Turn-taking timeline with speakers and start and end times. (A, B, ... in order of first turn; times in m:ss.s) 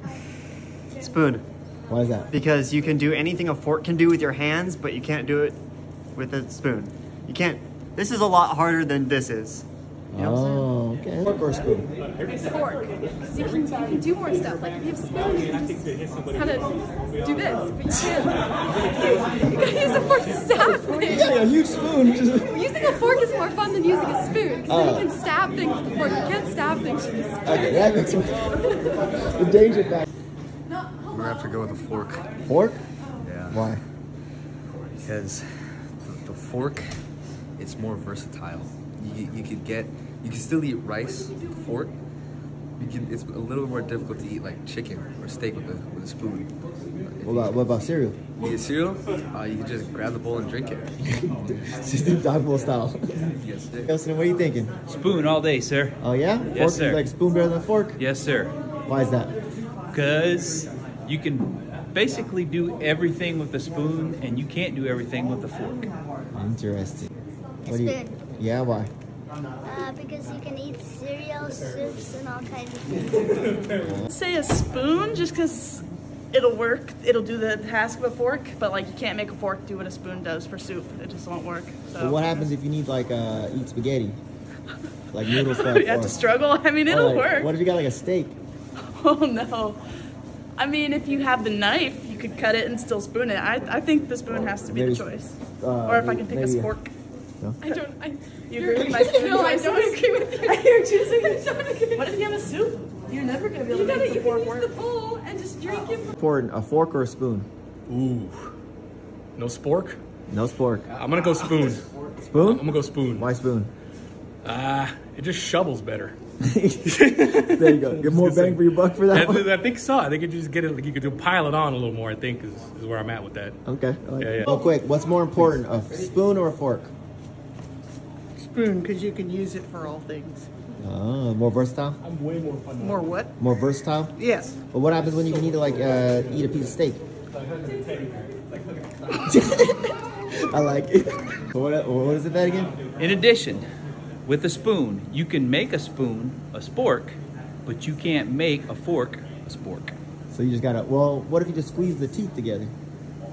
0:00.9-0:01.4 A
0:01.9-0:02.3 B
0:02.3-0:05.6 A
0:06.1-0:10.7 A
0:10.1-0:11.9 B
0:12.3-0:21.3 C
0:15.6-0:16.4 D
0:20.6-0:22.8 B
0:22.4-0:27.7 C
0:24.7-0:25.1 B
0:27.4-0:30.0 B
0:31.1-0:32.3 E
0:32.4-0:32.8 B
0:33.2-0:33.7 E
0:33.5-0:33.8 B
0:35.0-0:37.0 E
0:37.6-0:41.9 E
0:42.8-0:46.5 E
0:47.2-0:47.5 E
0:47.2-0:48.2 B
0:48.4-0:50.9 E
0:51.0-0:53.3 B
0:53.3-0:53.9 E
0:53.8-0:54.7 B
0:54.9-0:56.0 F
0:56.0-0:58.0 B
0:56.5-0:57.1 F
0:58.0-0:58.5 F
0:58.9-0:59.4 B
0:59.9-1:05.9 F
1:06.3-1:07.1 B
1:07.6-1:08.2 G
1:07.6-1:08.9 B
1:09.6-1:13.7 G
1:13.8-1:14.1 B
1:14.1-1:22.4 H
1:22.0-1:24.2 B
1:25.1-1:26.2 B
1:25.3-1:27.5 H
1:26.8-1:28.4 B
1:28.9-1:29.8 H
1:30.6-1:36.9 H
1:34.7-1:36.7 B
1:37.6-1:40.8 C
1:38.5-1:46.0 H
1:41.4-1:42.1 C
1:43.7-1:46.1 C
1:46.1-1:47.5 B
1:47.9-1:48.5 D
1:49.4-1:50.0 D
1:50.3-1:50.9 B
1:51.0-1:51.8 D
1:52.2-1:53.7 B
1:52.5-1:53.2 D
1:54.4-1:56.2 D
1:56.4-1:59.5 B
1:57.2-1:58.4 D
1:59.2-2:03.5 D
2:03.6-2:06.9 B
2:04.2-2:04.5 D
2:08.4-2:10.4 I
2:10.8-2:12.0 B
2:12.0-2:12.8 D
2:12.9-2:13.3 I
2:13.4-2:14.1 B
2:14.2-2:14.6 I
2:14.7-2:17.0 B
2:17.5-2:18.4 D
2:19.2-2:22.7 B
2:23.0-2:23.6 F
2:24.2-2:29.9 F
2:30.3-2:32.7 B